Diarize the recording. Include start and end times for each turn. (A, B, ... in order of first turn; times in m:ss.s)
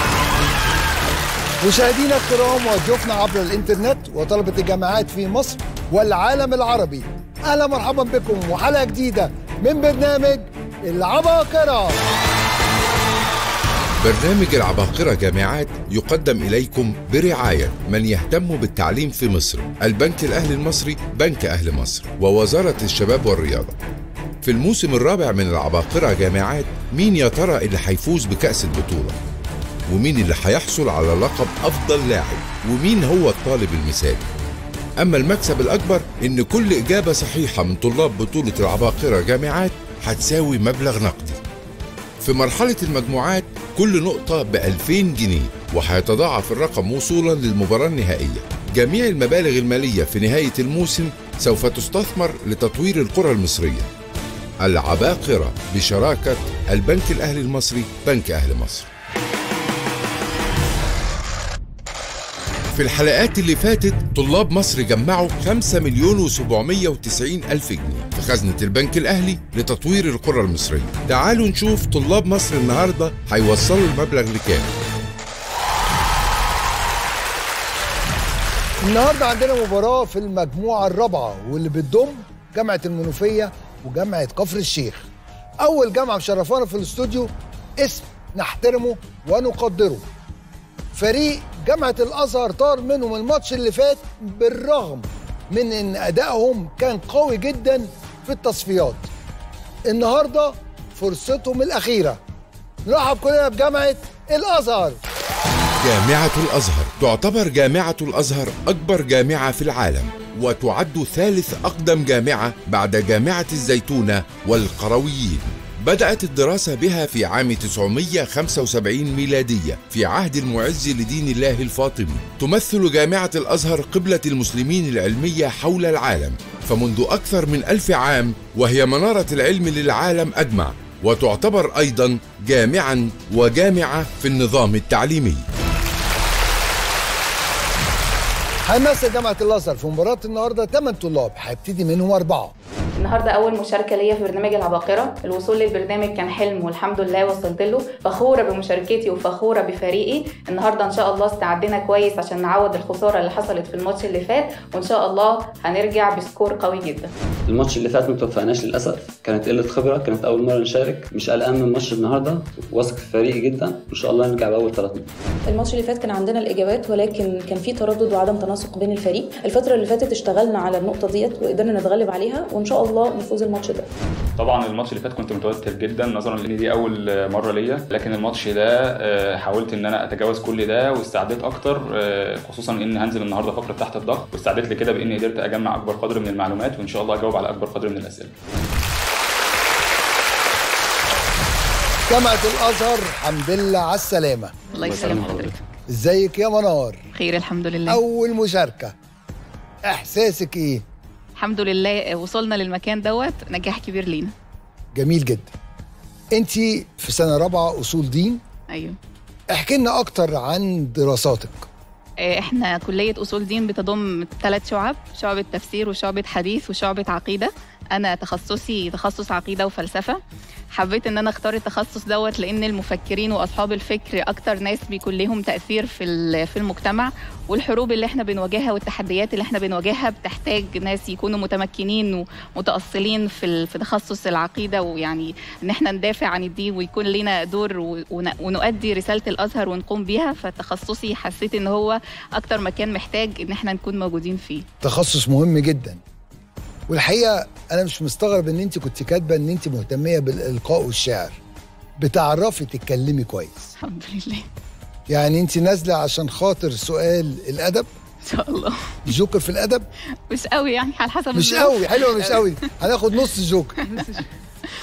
0:01.6-0:12.0 A
0:14.0-0:23.7 B
0:24.4-0:29.2 B
0:29.9-0:34.2 B
0:35.0-0:41.4 B
0:42.2-0:53.9 B
0:54.6-0:58.9 B
1:02.7-1:14.7 B
1:18.8-1:25.1 A
1:25.6-1:30.1 A
1:30.9-1:39.1 A
1:39.9-1:42.2 A
1:42.8-1:45.0 A
1:45.8-2:15.4 B
2:18.6-2:22.5 A
2:23.0-2:37.1 C
2:37.5-2:45.1 D
2:45.4-2:53.9 E
2:54.4-3:08.3 F
3:12.1-3:14.6 A
3:14.7-3:15.6 C
3:14.7-3:15.6 D
3:15.9-3:17.0 A
3:17.1-3:18.0 C
3:17.9-3:18.9 A
3:19.8-3:20.8 A
3:21.4-3:24.3 C
3:24.9-3:25.5 A
3:26.3-3:28.4 A
3:28.7-3:29.0 C
3:29.5-3:31.7 A
3:32.2-3:40.2 C
3:40.7-4:04.6 C
4:04.8-4:06.0 A
4:06.9-4:11.4 A
4:12.0-4:13.7 A
4:13.8-4:14.4 C
4:15.1-4:17.9 A
4:18.2-4:18.8 C
4:19.1-4:19.9 A
4:20.3-4:22.5 C
4:21.3-4:23.8 A
4:23.8-4:24.2 C